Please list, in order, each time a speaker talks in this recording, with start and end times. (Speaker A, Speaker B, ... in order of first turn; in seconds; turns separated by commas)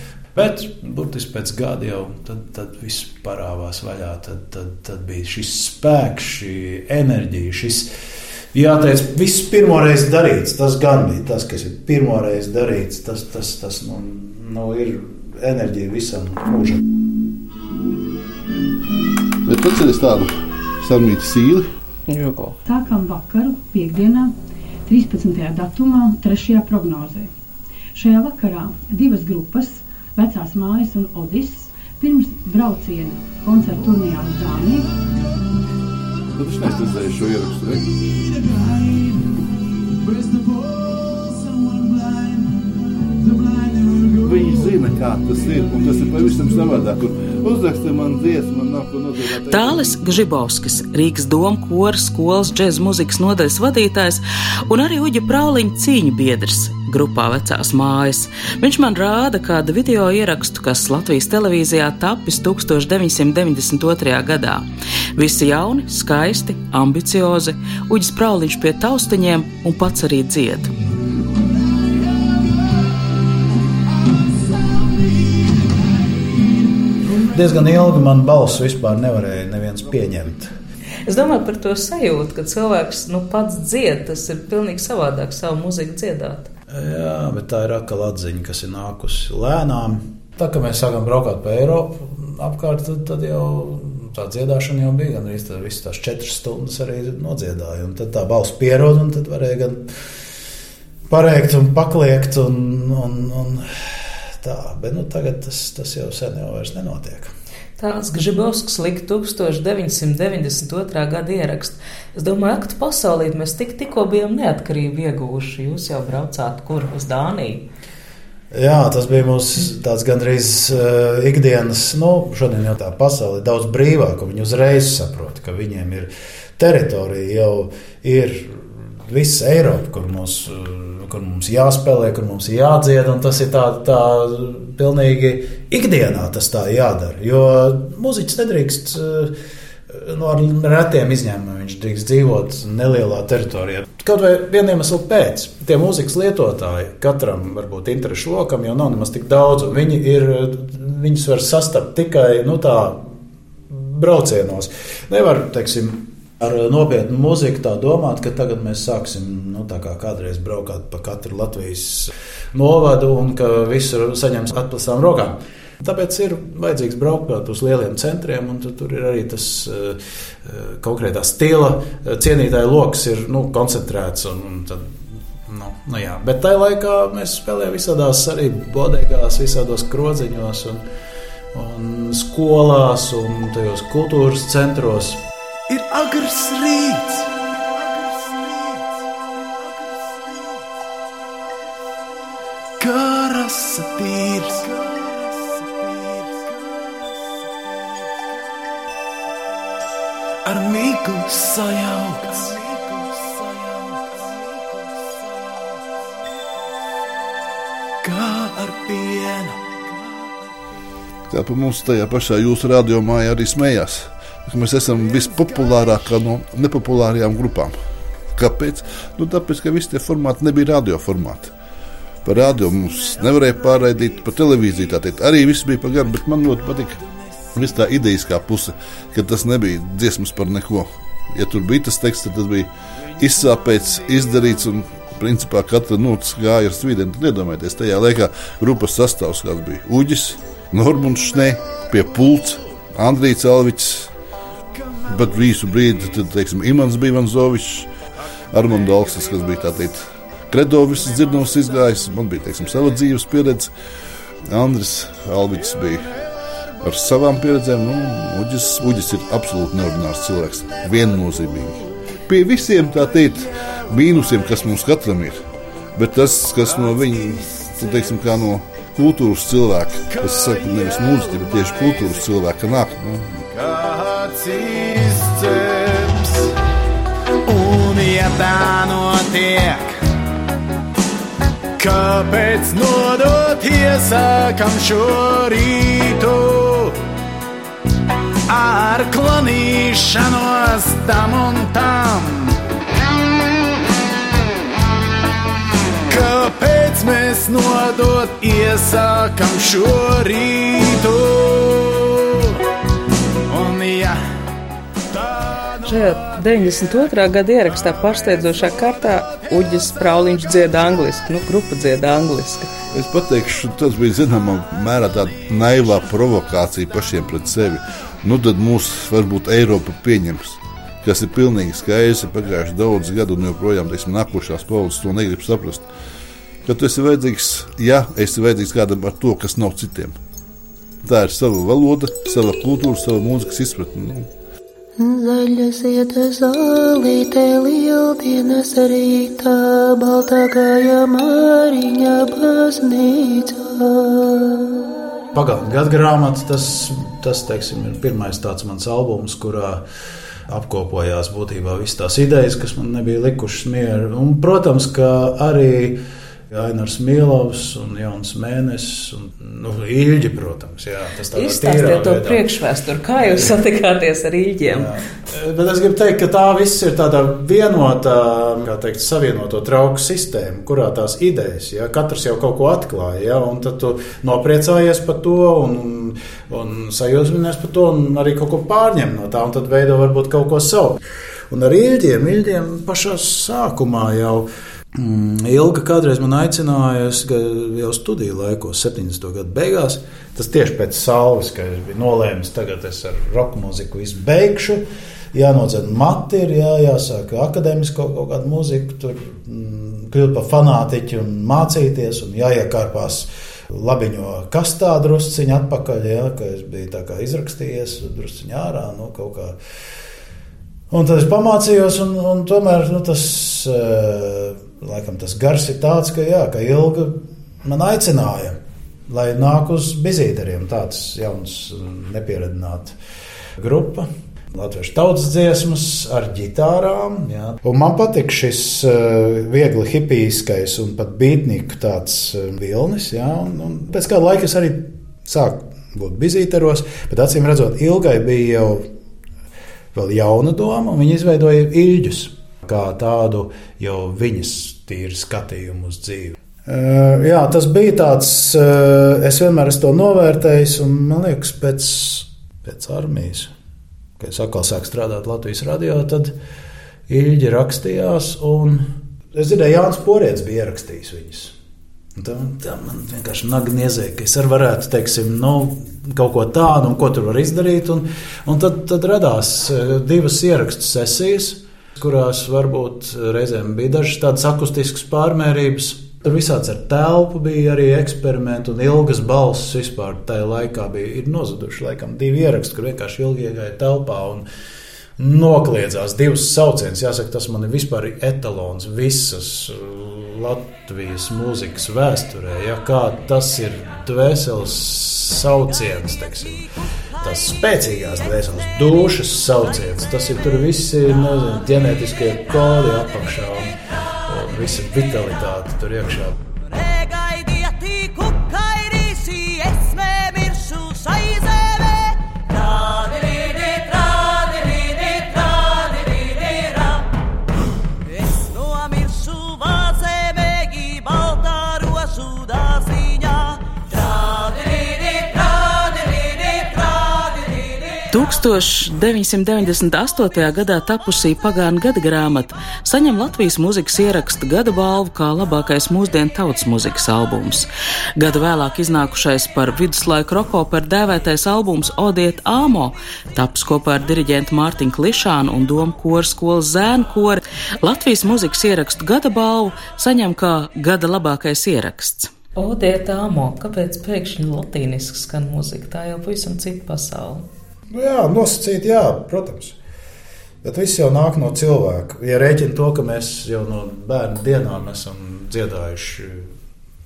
Speaker A: 0.3-7.9, Speaker A: 8.5-16.8, Speaker B: 19.4-21.7, Speaker C: 22.1-22.5, Speaker D: 22.6-24.3, Speaker D: 24.9-27.3, Speaker D: 27.9-34.9, Speaker B: 36.3-38.1, Speaker B: 44.1-50.0, Speaker E: 49.5-64.6, Speaker E: 65.2-70.7, Speaker A: 77.3-80.5, Speaker C: 81.0-86.5, Speaker A: 86.7-99.9, Speaker A: 101.1-103.7, Speaker A: 104.4-107.3, Speaker C: 107.8-117.6, Speaker A: 118.5-139.3, Speaker A: 139.9-153.1, Speaker A: 153.7-180.8, Speaker A: 181.5-188.8, Speaker A: 192.8-196.4, Speaker A: 200.4-204.0, Speaker A: 208.0-209.8, Speaker B: 211.3-217.8, Speaker B: 218.3-221.5, Speaker B: 222.2-244.1, Speaker B: 245.1-247.9, Speaker B: 248.5-253.7, Speaker B: 254.5-256.2, Speaker B: 256.8-265.4, Speaker B: 265.9-273.4, Speaker A: 270.4-270.9, Speaker A: 273.5-276.6, Speaker A: 277.4-280.0, Speaker A: 281.8-287.0, Speaker A: 288.5-292.6, Speaker A: 296.1-302.6, Speaker A: 303.4-304.2, Speaker C: 305.8-312.7, Speaker B: 312.9-325.8, Speaker B: 326.6-330.2, Speaker B: 331.0-334.3, Speaker F: 335.0-344.7, Speaker A: 345.3-349.8, Speaker A: 350.5-356.0, Speaker A: 356.5-362.4, Speaker C: 361.3-364.9, Speaker A: 363.2-363.5, Speaker A: 364.6-409.6, Speaker A: 410.9-422.9, Speaker A: 423.6-438.9, Speaker A: 439.9-453.5, Speaker A: 454.2-456.3, Speaker A: 457.1-461.5, Speaker A: 462.1-484.4, Speaker A: 485.2-496.6, Speaker A: 497.2-506.4, Speaker A: 507.9-508.4, Speaker A: 508.9-509.4, Speaker E: 528.1-552.3, Speaker C: 552.5-557.5, Speaker A: 557.9-559.8, Speaker A: 560.6-566.5